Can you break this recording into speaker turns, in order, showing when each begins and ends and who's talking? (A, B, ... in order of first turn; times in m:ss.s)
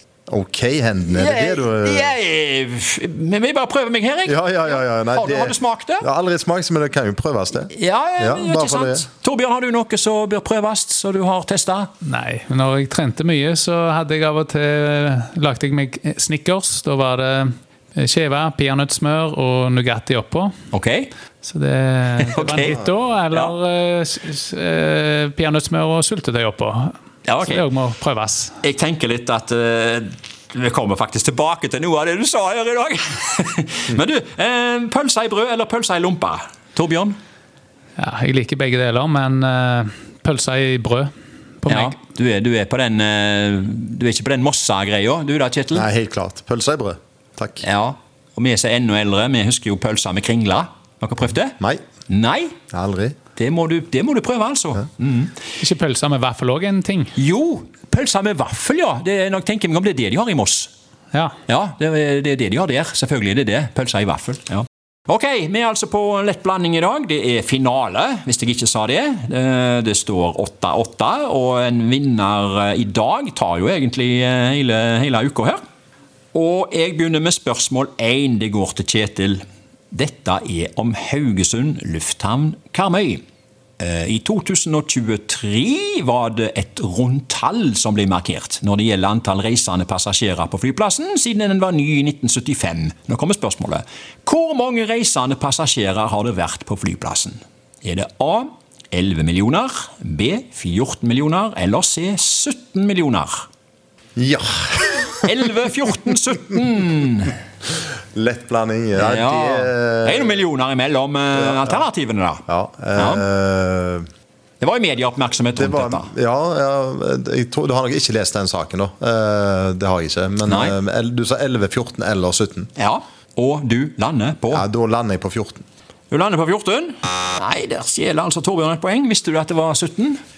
0:00.3-0:02.2 A
0:01.1-0:06.1 B
0:04.3-0:09.1 A
0:07.7-0:11.9 B
0:12.0-0:20.5 C
0:20.7-0:21.1 B
0:21.4-0:28.6 C
0:22.2-0:22.8 B
0:27.2-0:27.7 B
0:28.6-0:37.2 B
0:38.0-0:41.1 C
0:41.6-0:42.0 C
0:41.7-0:45.9 B
0:45.7-0:47.6 A
0:47.6-0:51.6 B
0:52.1-0:52.6 B
0:52.7-0:53.2 A
0:53.4-0:55.3 B
0:55.6-0:57.1 C
0:57.2-1:00.7 B
1:01.5-1:15.6 B
1:16.3-1:23.2 B
1:23.8-1:43.5 B
1:44.2-1:45.3 A
1:45.2-1:47.4 B
1:48.2-1:50.4 A
1:49.0-1:52.4 B
1:51.4-1:51.8 A
1:52.5-1:54.0 A
1:53.0-1:53.2 B
1:54.6-1:56.1 B
1:55.6-2:02.7 A
2:00.5-2:00.8 B
2:02.8-2:04.6 B
2:04.5-2:05.6 A
2:06.1-2:10.2 B